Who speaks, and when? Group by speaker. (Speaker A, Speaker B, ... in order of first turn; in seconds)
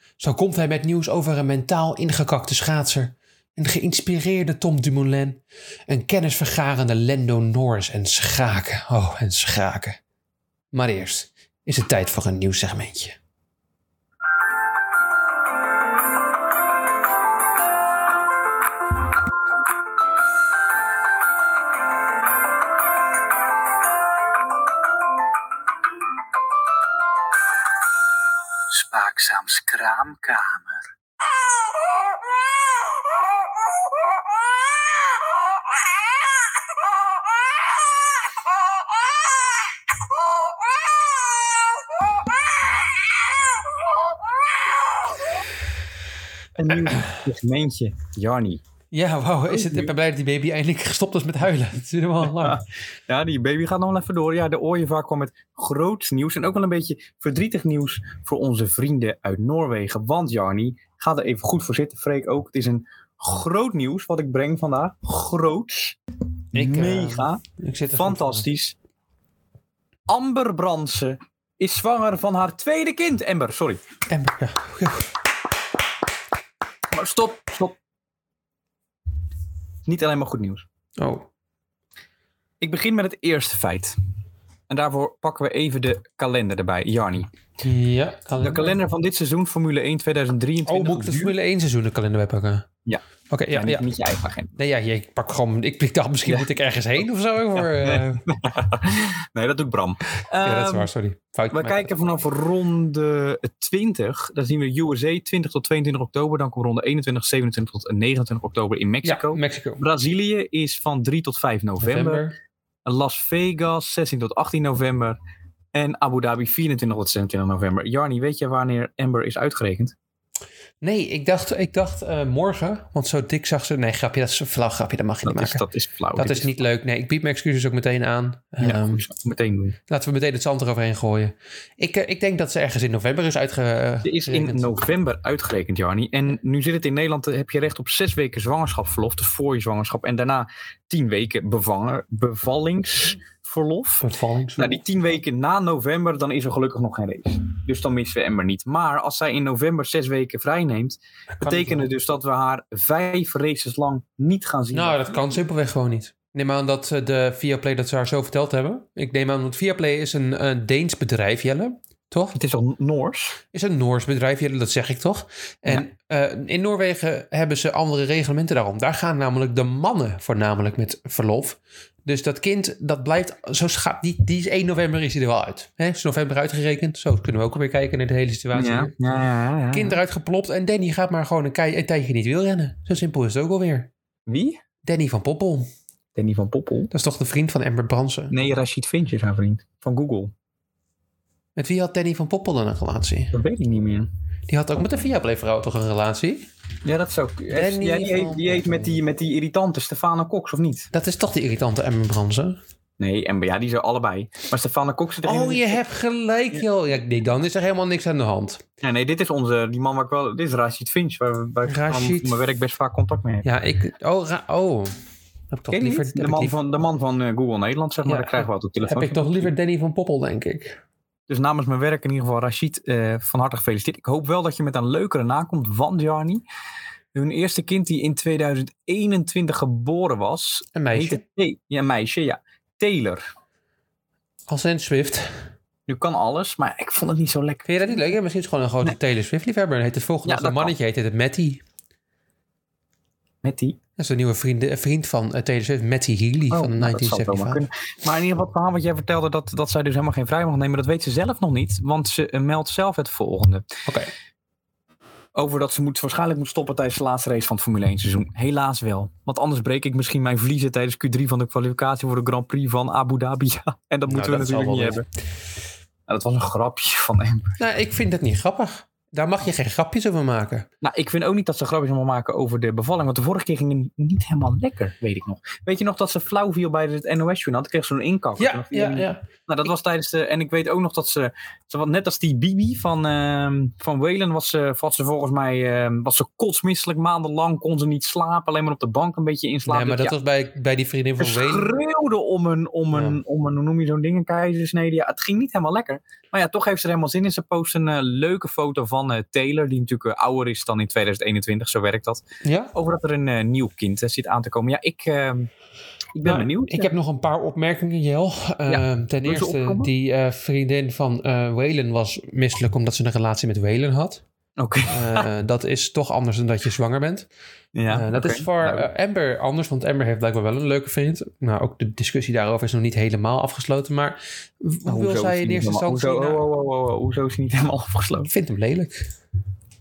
Speaker A: 0.2-10.0, 10.7-13.2, 48.9-52.6, 66.5-68.5, 74.1-75.1, 81.0-81.2, 87.6-88.8, 90.6-92.7, 93.3-93.8, 94.5-98.2, 100.4-101.9, 109.0-109.8, 111.8-112.3, 120.8-125.6, 126.2-129.0, 129.9-134.7, 144.0-144.8, 151.3-151.9, 154.7-162.3, 163.5-178.9, 179.7-183.9, 184.8-185.7, 186.9-188.3, 191.6-193.3, 194.5-196.5, 197.5-198.8, 200.9-202.6, 205.2-208.6, 211.7-212.4, 213.4-214.9, 215.5-216.6, 218.1-220.8, 230.7-231.2, 234.5-235.4, 237.7-241.6, 244.0-247.6, 253.8-254.1, 264.1-265.0, 267.6-270.7, 278.4-279.2, 289.7-291.7, 292.9-293.2, 302.4-302.7, 306.2-314.2, 314.9-317.3, 317.9-326.4, 328.2-329.1
Speaker B: 28.7-30.9, 46.5-48.6, 49.5-49.9, 52.2-66.0, 66.5-67.4, 68.0-68.7, 70.1-73.8, 76.9-77.8, 79.8-80.7, 82.6-84.0, 84.7-87.3, 88.4-91.3, 92.8-94.5, 96.2-96.5, 97.5-100.9, 101.5-112.2, 112.8-115.2, 115.7-119.9, 125.2-126.6, 128.6-129.8, 134.0-144.1, 144.6-155.2, 162.3-163.4, 178.5-180.0, 184.3-184.6, 186.1-186.9, 188.3-190.3, 193.3-194.1, 196.8-200.9, 203.0-205.8, 208.8-213.5, 215.7-219.5, 221.3-226.4, 227.1-233.2, 235.9-238.0, 240.2-240.7, 243.4-243.8, 246.5-253.7, 255.3-265.1, 266.1-267.6, 270.8-290.1, 291.2-302.2, 302.7-305.5, 306.1-306.9, 308.7-309.9, 314.6-315.3, 317.7-318.9, 324.9-328.3